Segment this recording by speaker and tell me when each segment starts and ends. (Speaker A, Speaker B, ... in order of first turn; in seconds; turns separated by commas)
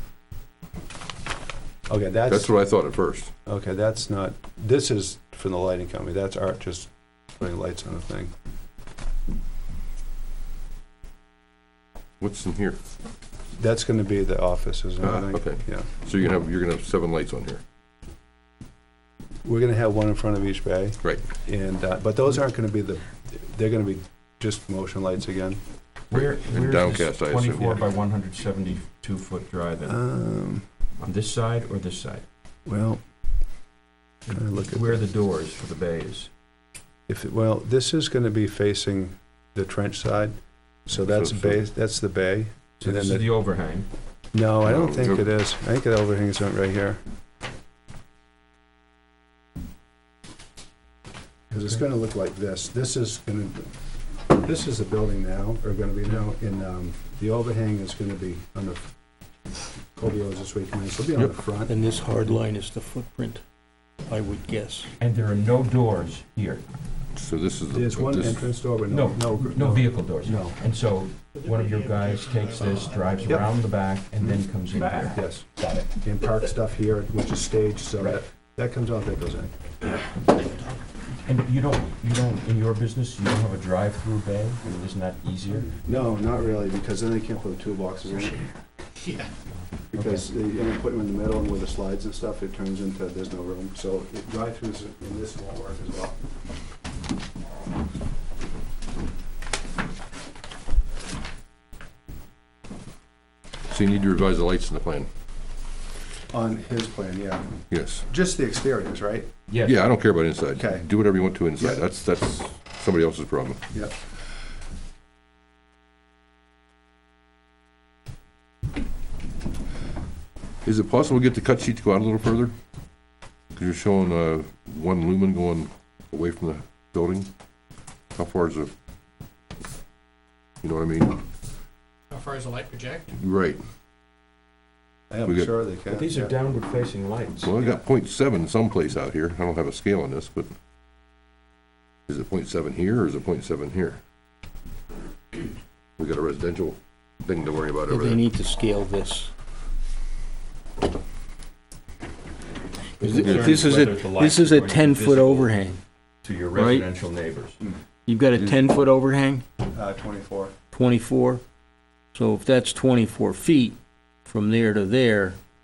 Speaker A: 1.9-2.5, Speaker B: 2.3-3.3, Speaker A: 3.5-8.3, Speaker B: 12.2-12.8, Speaker A: 13.6-15.9, Speaker B: 15.0-17.6, Speaker A: 19.4-25.6, Speaker C: 26.1-30.0, Speaker B: 26.1-27.8, Speaker A: 29.8-30.6, Speaker C: 31.0-32.2, Speaker A: 32.7-33.0, Speaker C: 34.3-36.3, Speaker A: 34.3-35.1, Speaker A: 37.1-43.2, Speaker B: 41.0-41.6, Speaker C: 42.8-43.9, Speaker A: 44.3-47.0, Speaker B: 44.7-45.3, Speaker A: 51.5-53.7, Speaker A: 54.3-58.9, Speaker A: 60.0-61.7, Speaker D: 61.7-63.4, Speaker D: 64.1-64.9, Speaker C: 65.0-66.6, Speaker B: 67.2-68.5, Speaker A: 67.7-70.6, Speaker C: 68.9-75.9, Speaker E: 71.3-73.5, Speaker A: 75.0-79.5, Speaker C: 81.3-85.8, Speaker A: 85.8-88.4, Speaker E: 89.0-89.3, Speaker A: 89.9-96.2, Speaker C: 89.9-90.2, Speaker B: 103.7-105.1, Speaker A: 106.3-107.5, Speaker B: 107.7-108.0, Speaker A: 108.0-109.3, Speaker C: 109.5-109.8, Speaker B: 109.6-113.6, Speaker A: 110.5-110.8, Speaker B: 120.7-122.5, Speaker B: 123.5-127.3, Speaker B: 128.2-128.7, Speaker B: 130.6-131.2, Speaker E: 132.1-133.1, Speaker B: 133.1-133.6, Speaker A: 135.1-136.3, Speaker C: 135.9-137.8, Speaker B: 137.4-140.5, Speaker B: 142.1-144.0, Speaker B: 146.0-148.2, Speaker D: 147.9-149.3, Speaker C: 153.0-155.7, Speaker D: 153.0-155.8, Speaker B: 153.2-153.8, Speaker C: 156.2-157.6, Speaker D: 156.6-156.9, Speaker D: 158.1-159.4, Speaker C: 158.3-158.7, Speaker A: 159.7-160.5, Speaker D: 160.7-161.4, Speaker D: 162.1-165.4